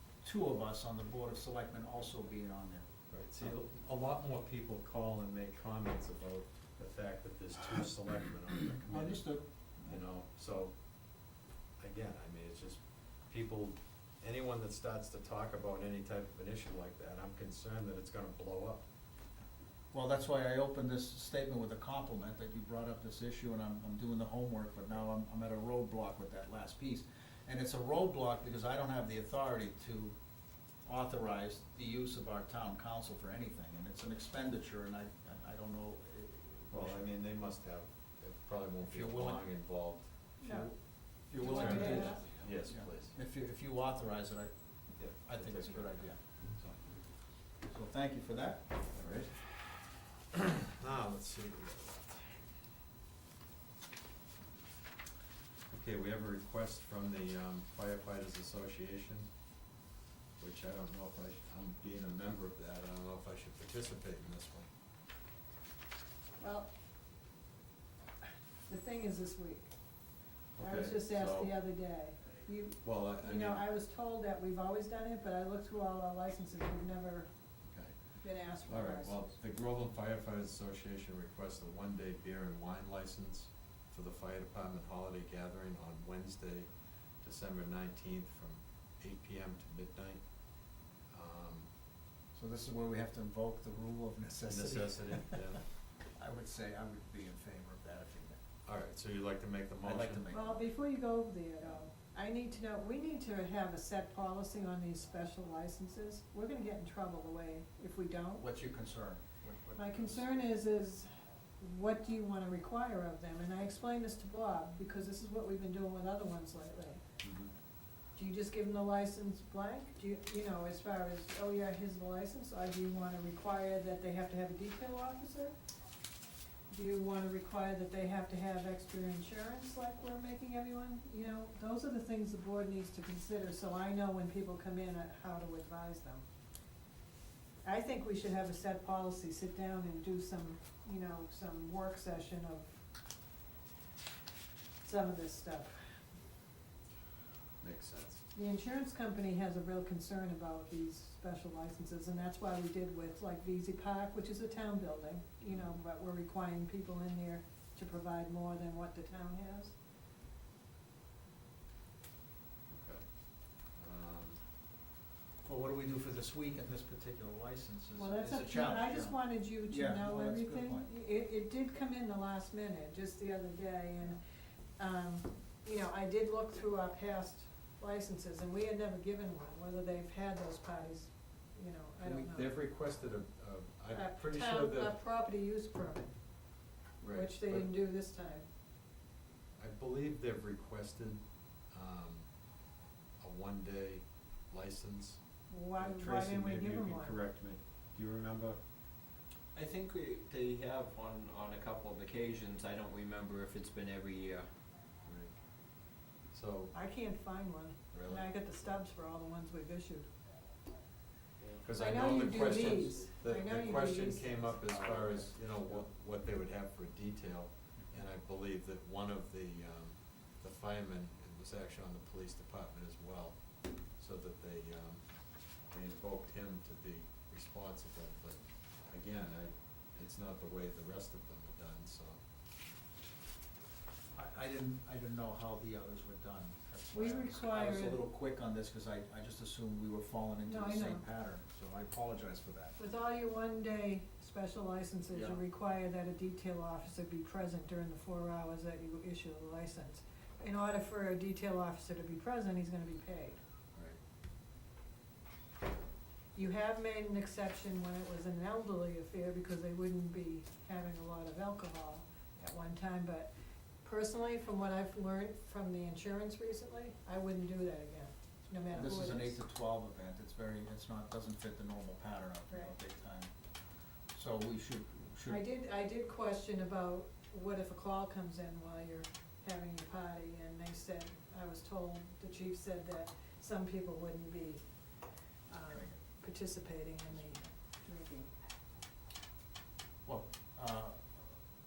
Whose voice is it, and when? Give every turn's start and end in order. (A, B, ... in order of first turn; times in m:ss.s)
0:00.2-0:02.9 A
0:03.1-0:09.3 B
0:08.9-0:10.0 A
0:09.8-0:10.7 B
0:11.8-0:18.8 B
0:19.9-0:30.2 A
0:30.8-0:37.0 A
0:36.7-0:40.7 B
0:38.8-0:39.4 A
0:40.4-0:40.7 C
0:41.3-0:44.5 A
0:41.4-0:43.2 B
0:41.4-0:42.2 C
0:45.0-0:46.1 B
0:45.0-0:46.8 A
0:47.6-0:49.3 A
0:49.0-0:49.5 B
0:50.3-0:52.3 B
0:55.7-0:59.3 B
1:00.4-1:04.7 B
1:06.4-1:06.7 C
1:08.7-1:09.7 C
1:10.6-1:11.6 B
1:10.6-1:17.3 C
1:12.8-1:13.6 B
1:17.6-1:18.0 B
1:18.2-1:19.3 C
1:18.7-1:26.7 B
1:27.2-1:30.2 B
1:31.1-1:31.7 B
1:32.4-1:35.6 A
1:34.5-1:35.6 B
1:36.2-1:38.4 A
1:38.6-1:40.3 B
1:39.8-1:40.6 A
1:40.3-1:48.4 C
1:48.4-1:50.3 A
1:49.8-1:51.1 C
1:51.6-1:57.0 C
1:57.2-1:57.5 B
1:58.2-2:05.6 C
2:06.7-2:16.2 C
2:17.6-2:22.8 C
2:24.8-2:25.7 C
2:27.6-2:28.2 B
2:28.4-2:39.7 C
2:42.7-2:43.0 B
2:43.7-2:44.4 B
2:45.4-2:50.9 A
2:48.0-2:54.2 C
2:54.8-3:02.5 C
3:02.0-3:05.0 B
3:03.9-3:06.2 C
3:07.0-3:07.7 B
3:07.1-3:08.4 C
3:09.6-3:11.2 B
3:11.7-3:12.3 B
3:13.2-3:15.2 B
3:15.5-3:17.2 C
3:15.8-3:18.6 B
3:19.6-3:24.5 D
3:25.1-3:25.3 B
3:26.3-3:26.7 B
3:26.7-3:30.1 C
3:27.9-3:28.2 B
3:31.4-3:31.6 D
3:31.6-3:43.4 B
3:31.7-3:34.5 C
3:32.2-3:32.9 D
3:34.7-3:35.2 D
3:44.0-3:45.0 B
3:45.7-3:52.2 B
3:54.2-4:02.8 A
3:56.9-3:58.0 C
4:00.5-4:01.0 C
4:02.8-4:13.4 C
4:05.1-4:05.4 B
4:16.4-4:23.3 C
4:23.8-4:29.4 C
4:28.7-4:33.3 A
4:34.1-4:35.4 A
4:35.3-4:44.6 C
4:45.5-4:48.3 C
4:50.0-4:51.0 A